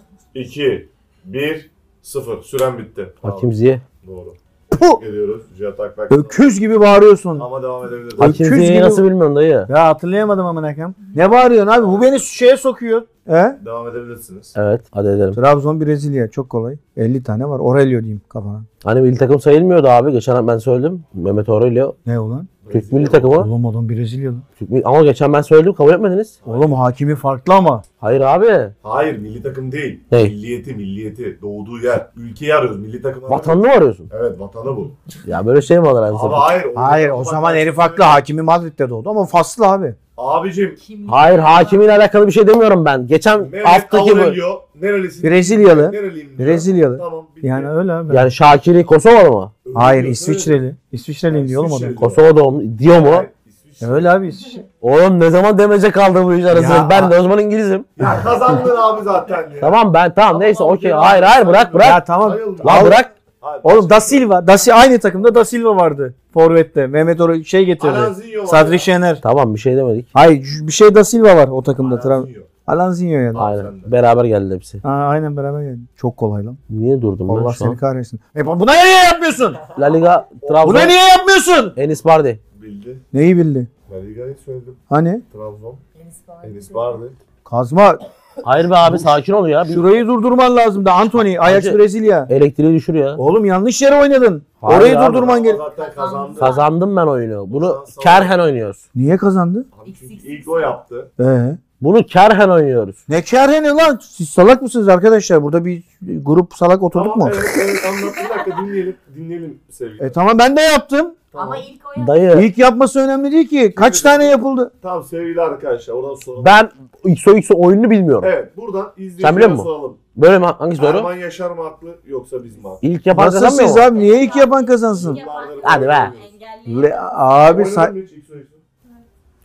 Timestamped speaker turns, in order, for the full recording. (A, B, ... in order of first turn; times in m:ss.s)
0:00.3-0:03.5 A
0:03.2-0:03.8 B
0:04.0-0:06.5 A
0:04.7-0:05.0 C
0:06.1-0:07.5 C
0:07.4-0:08.5 A
0:08.2-0:09.0 C
0:08.2-0:09.7 B
0:09.7-0:13.6 C
0:11.8-0:12.2 A
0:13.6-0:14.5 A
0:14.6-0:15.4 B
0:15.4-0:18.7 C
0:18.8-0:22.0 B
0:22.1-0:22.5 C
0:22.6-0:23.4 A
0:22.7-0:23.5 B
0:23.3-0:24.4 C
0:24.6-0:26.4 B
0:26.4-0:26.8 A
0:26.4-0:27.8 C
0:28.0-0:28.7 B
0:28.8-0:35.0 A
0:33.3-0:34.1 B
0:35.2-0:36.5 B
0:36.1-0:38.2 A
0:36.8-0:40.0 C
0:40.2-0:40.8 A
0:40.8-0:42.1 D
0:41.1-0:44.4 B
0:43.4-0:47.7 A
0:45.2-0:48.3 C
0:48.1-0:49.5 B
0:49.6-0:50.6 A
0:49.8-0:52.0 C
0:51.3-0:52.3 A
0:52.0-0:53.3 B
0:52.9-0:54.1 A
0:53.8-0:54.6 C
0:54.8-0:57.9 B
0:56.5-0:57.2 C
0:58.0-0:59.8 A
0:59.6-1:02.0 B
1:00.3-1:04.3 A
1:01.8-1:03.0 C
1:02.6-1:03.1 B
1:03.6-1:09.2 C
1:07.8-1:08.9 A
1:09.2-1:10.1 B
1:10.2-1:13.5 C
1:11.8-1:12.5 A
1:13.3-1:13.9 A
1:13.4-1:14.8 B
1:14.8-1:16.6 C
1:16.7-1:17.8 B
1:17.3-1:19.6 C
1:19.8-1:21.0 B
1:20.4-1:20.9 A
1:20.6-1:21.8 C
1:21.8-1:22.4 B
1:22.6-1:23.0 A
1:23.1-1:23.7 C
1:23.9-1:25.8 A
1:24.9-1:25.2 C
1:26.0-1:27.0 D
1:26.4-1:27.2 A
1:27.4-1:28.0 C
1:28.4-1:29.9 B
1:29.7-1:32.3 C
1:31.4-1:33.2 B
1:33.2-1:35.6 C
1:34.6-1:35.3 B
1:34.9-1:36.6 A
1:35.7-1:36.7 D
1:36.4-1:38.8 B
1:37.5-1:38.4 A
1:39.0-1:39.7 C
1:39.8-1:41.1 A
1:39.8-1:40.8 D
1:41.2-1:41.6 C
1:41.8-1:43.0 B
1:43.1-1:47.6 C
1:46.9-1:50.2 A
1:50.0-1:51.2 C
1:51.3-1:51.7 A
1:51.4-1:52.2 D
1:52.0-1:52.5 B
1:52.3-1:54.7 C
1:53.7-1:56.6 A
1:56.4-1:58.3 B
1:58.2-2:00.0 A
1:59.2-2:01.1 B
2:00.8-2:02.8 A
2:02.8-2:03.9 B
2:03.1-2:05.2 C
2:03.7-2:07.1 D
2:04.9-2:06.3 A
2:05.6-2:06.1 B
2:06.7-2:07.9 C
2:07.4-2:08.6 A